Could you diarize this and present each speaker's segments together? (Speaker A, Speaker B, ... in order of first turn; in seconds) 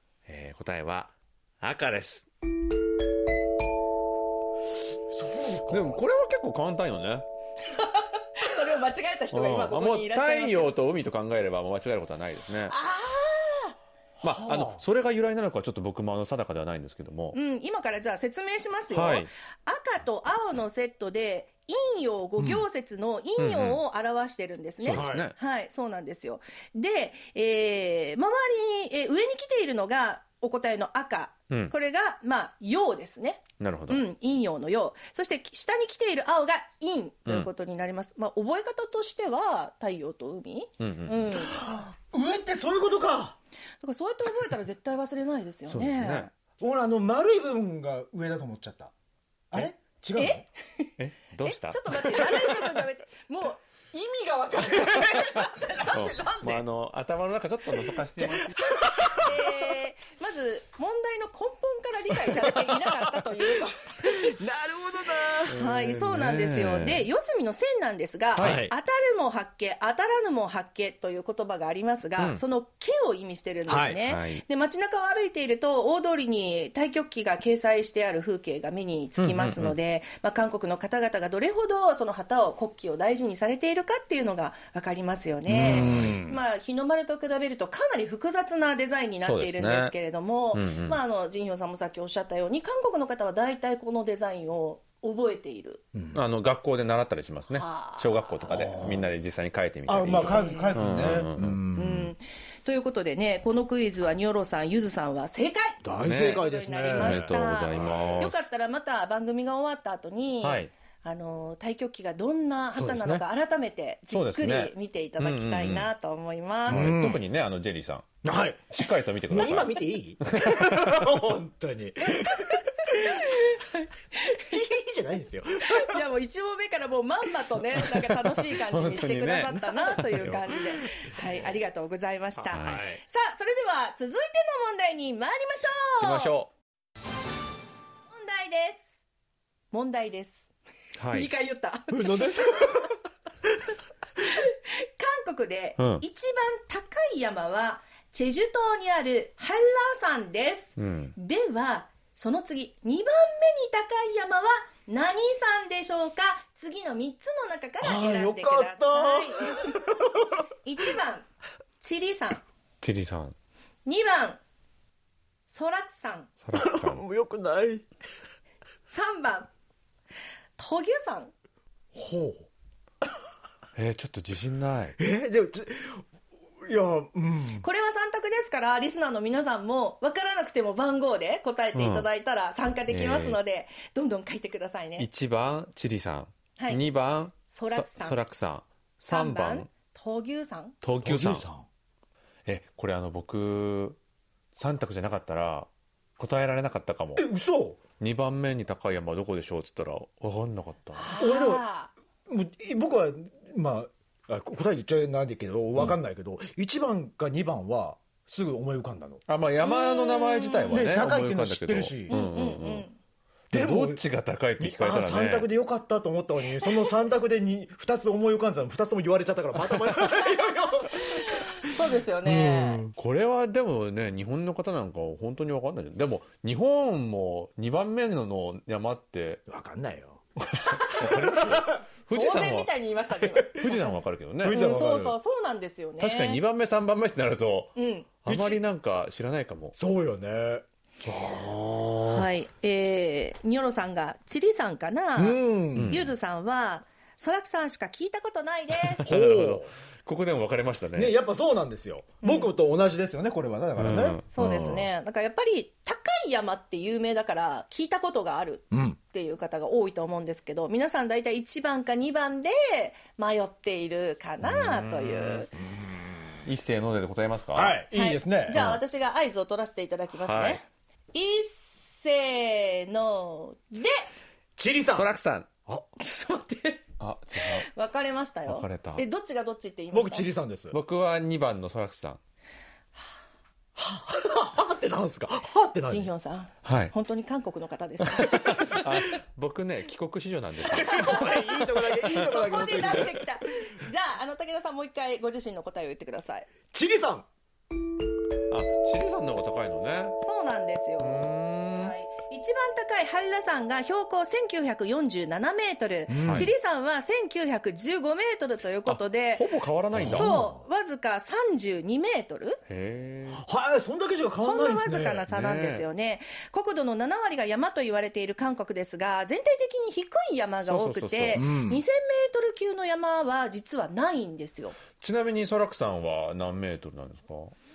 Speaker A: 0.3-2.3, 5.7-7.2, 9.3-12.7, 14.2-17.4, 18.9-19.3, 23.4-23.8, 24.8-25.3, 33.6-34.0, 40.8-41.3, 45.7-46.3, 51.0-52.5, 55.9-59.2, 65.5-67.1, 68.3-68.7, 72.2-72.4, 74.0-74.4, 79.2-79.8, 85.5-86.2, 89.2-89.9, 90.5-91.0, 96.1-101.6, 106.0-108.4, 110.4-110.7, 114.1-115.9, 116.7-118.1, 118.7-121.0, 128.5-130.4, 132.5-132.9, 136.0-136.5, 141.0-141.3, 145.8-146.0, 150.8-151.1, 162.8-163.3, 166.4-167.0, 173.8-175.0, 181.7-182.1, 182.9-183.4, 185.0-189.7, 190.8-191.4, 192.4-194.0, 194.5-197.3, 198.0-201.1, 209.3-212.8, 213.5-215.5, 222.9-229.4, 230.8-232.7, 233.4-234.6, 236.0-239.8, 245.7-246.1, 248.8-251.1, 253.8-254.7, 264.4-265.5, 266.4-267.8, 268.5-268.8, 270.2-270.6, 274.9-275.5, 277.0-277.7, 278.5-279.0, 280.7-282.2, 286.6-286.9, 288.1-291.4, 298.5-300.2, 301.0-301.9, 306.2-306.5, 308.9-310.3, 312.7-313.4, 315.3-315.9, 320.6-321.4, 325.0-327.5
Speaker B: 5.1-6.0, 14.2-14.8, 22.4-22.6, 24.9-25.3, 41.3-43.4, 46.6-48.9, 49.5-50.5, 54.6-56.6, 57.7-59.4, 64.0-65.5, 68.4-68.7, 73.7-74.0, 85.5-86.4, 95.9-96.2, 98.5-99.1, 99.9-102.1, 105.8-108.1, 112.7-113.2, 116.7-117.2, 118.2-123.4, 124.4-126.0, 132.5-133.0, 141.9-142.9, 157.8-160.4, 166.5-167.8, 171.9-172.5, 175.0-176.0, 176.6-177.7, 191.0-191.7, 197.2-197.8, 201.2-201.6, 202.3-209.2, 210.7-212.1, 213.5-214.0, 214.6-222.9, 229.5-231.8, 233.4-233.8, 234.4-235.2, 238.2-238.6, 239.8-242.3, 245.2-246.0, 249.1-249.7, 250.9-254.8, 258.7-259.0, 265.6-266.4, 267.5-268.6, 274.6-275.1, 279.9-280.8, 283.8-286.1, 290.7-293.2, 296.7-297.3, 306.1-306.5, 309.9-310.6, 313.3-315.3, 321.3-321.8
Speaker C: 7.7-10.7, 12.7-13.8, 17.3-41.6, 43.8-46.3, 50.1-50.9, 51.4-55.9, 59.0-64.3, 65.5-95.8, 97.5-98.8, 100.1-100.8, 101.7-117.0, 122.2-124.5, 125.6-136.3, 138.1-139.0, 139.7-140.5, 141.1-142.9, 144.2-159.8, 160.6-161.3, 161.8-162.4, 163.8-164.4, 165.5-166.3, 168.9-169.5, 170.6-171.3, 177.6-185.1, 187.5-188.2, 189.1-190.8, 200.9-201.9, 209.6-210.8, 212.1-213.0, 216.6-216.9, 220.9-222.8, 230.6-231.1, 232.1-233.9, 234.4-236.4, 237.8-238.1, 242.0-249.1, 252.2-252.5, 254.3-265.5, 267.9-270.6, 271.1-274.1, 276.0-276.8, 277.4-280.3, 285.9-288.9, 290.8-296.5, 300.2-312.6, 314.4-324.8